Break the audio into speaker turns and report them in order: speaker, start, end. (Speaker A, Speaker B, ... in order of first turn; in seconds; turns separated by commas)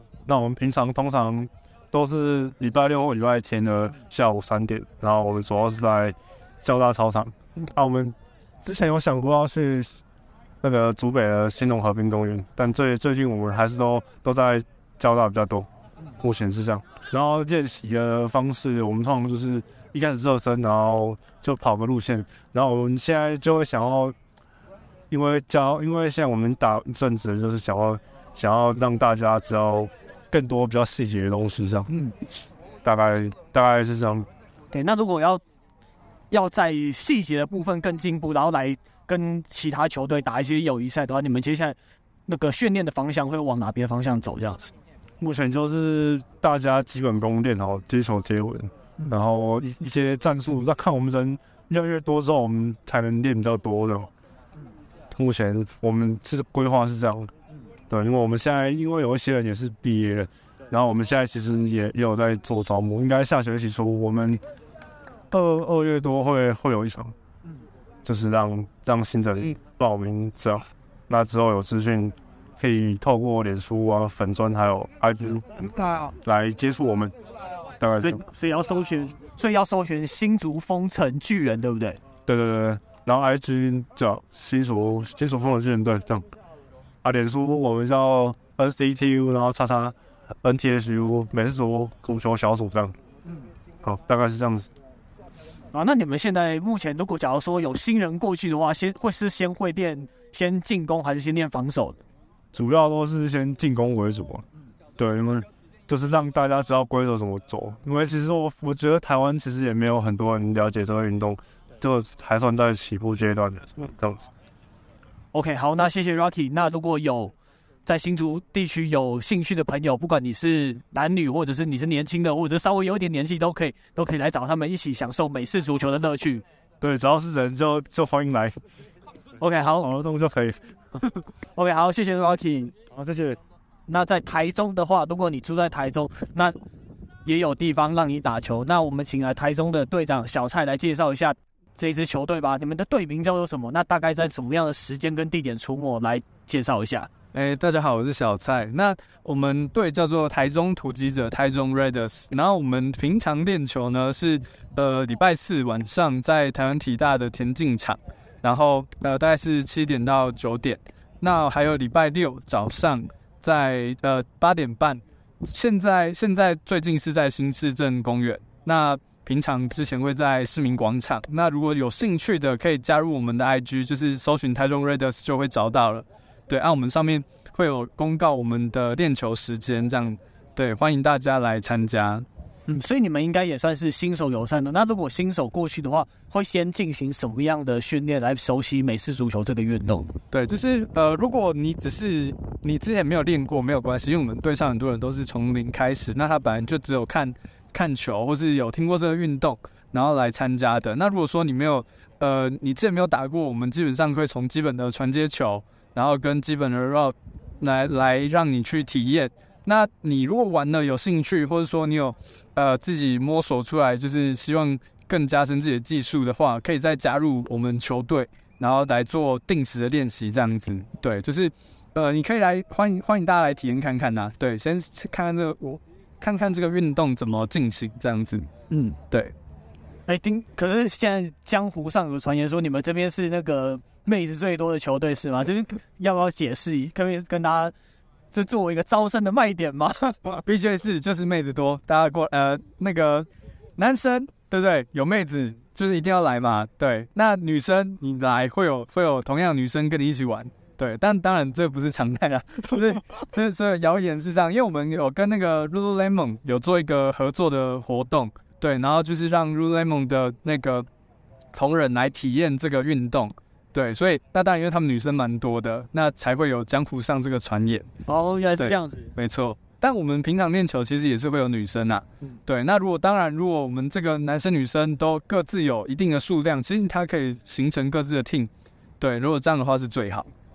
Speaker A: 0.2-10.0, Speaker A: 10.6-15.7, Speaker A: 16.2-24.1, Speaker A: 25.1-31.9, Speaker B: 31.9-32.1, Speaker A: 32.8-34.3, Speaker B: 34.7-35.4, Speaker B: 36.3-41.8, Speaker B: 42.3-44.7, Speaker A: 45.2-54.1, Speaker A: 55.1-57.3, Speaker A: 57.9-64.4, Speaker A: 65.3-67.1, Speaker A: 68.0-77.1, Speaker A: 77.8-78.2, Speaker B: 78.0-82.0, Speaker A: 82.2-86.2, Speaker A: 87.0-93.0, Speaker A: 93.8-94.7, Speaker B: 95.7-102.0, Speaker A: 102.5-104.4, Speaker A: 105.0-114.3, Speaker B: 115.3-117.3, Speaker B: 117.8-126.4, Speaker A: 126.8-128.6, Speaker B: 129.4-129.9, Speaker A: 129.8-130.7, Speaker B: 131.5-132.7, Speaker A: 132.9-133.4, Speaker B: 133.9-136.6, Speaker B: 137.2-147.1, Speaker C: 147.3-182.2, Speaker B: 182.7-190.1, Speaker C: 190.3-229.3, Speaker B: 230.1-237.7, Speaker B: 238.3-240.2, Speaker C: 240.2-260.9, Speaker C: 261.5-267.9, Speaker B: 268.1-269.1, Speaker C: 268.6-280.3